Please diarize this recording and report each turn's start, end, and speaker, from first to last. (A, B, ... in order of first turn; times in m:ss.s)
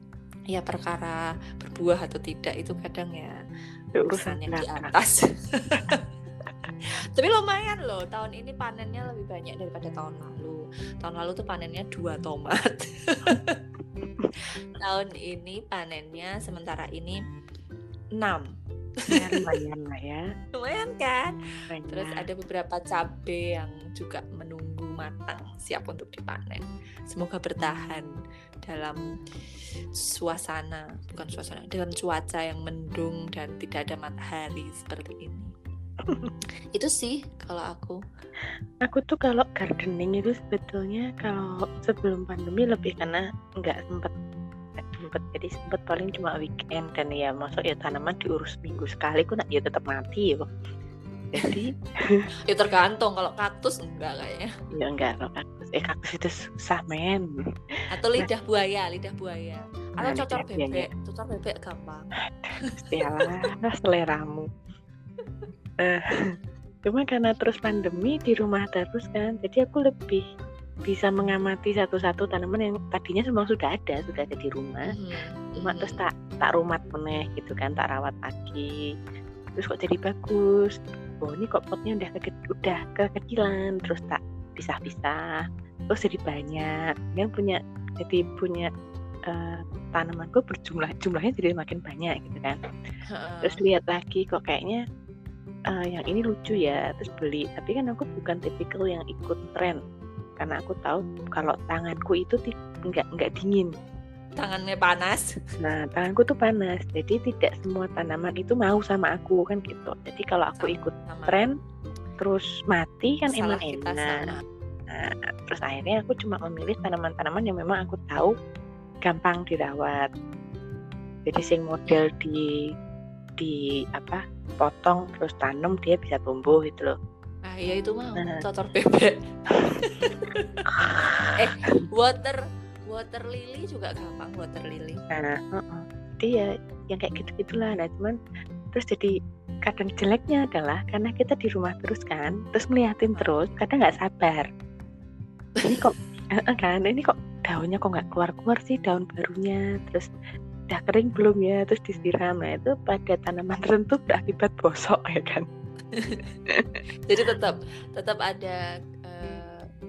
0:00.5-0:03.4 A
0:04.0-0:04.9 B
0:04.1-0:06.0 A
0:07.2-0:13.6 A
0:14.8-0:17.2 A
0:18.2-0:18.4 A
0:19.1-0:19.5 A
0:19.1-0:20.2 B
0:20.5-0:21.4 A
0:21.7-0:22.2 B
0:21.9-0:28.1 A
0:28.6-0:29.0 A
0:30.0-0:35.5 A
0:36.0-0:36.3 B
0:36.7-0:38.0 A
0:38.8-0:44.1 B
0:44.8-0:50.5 B
0:51.3-0:52.2 B
0:52.5-0:54.5 A
0:54.7-0:57.3 B
0:57.9-1:02.1 A
1:00.0-1:00.9 B
1:02.3-1:04.4 B
1:02.9-1:03.3 A
1:06.8-1:10.2 B
1:10.9-1:14.9 B
1:14.9-1:16.0 A
1:15.6-1:18.7 B
1:19.6-1:25.2 B
1:25.9-1:28.7 B
1:29.3-1:32.6 B
1:33.1-1:33.6 A
1:33.4-1:34.8 B
1:35.7-1:39.8 B
1:40.4-1:43.7 B
1:44.4-1:45.3 A
1:45.6-1:51.5 B
1:50.6-1:51.5 A
1:52.2-1:54.3 B
1:53.2-1:54.4 A
1:54.9-1:58.3 B
1:59.0-2:00.1 B
2:01.2-2:02.5 B
2:03.4-2:06.9 B
2:07.4-2:15.0 A
2:10.7-2:11.4 B
2:15.1-2:18.2 B
2:18.7-2:24.4 B
2:23.1-2:23.4 A
2:25.6-2:30.1 B
2:30.7-2:35.4 B
2:35.9-2:36.2 A
2:36.5-2:36.8 B
2:37.0-2:39.6 A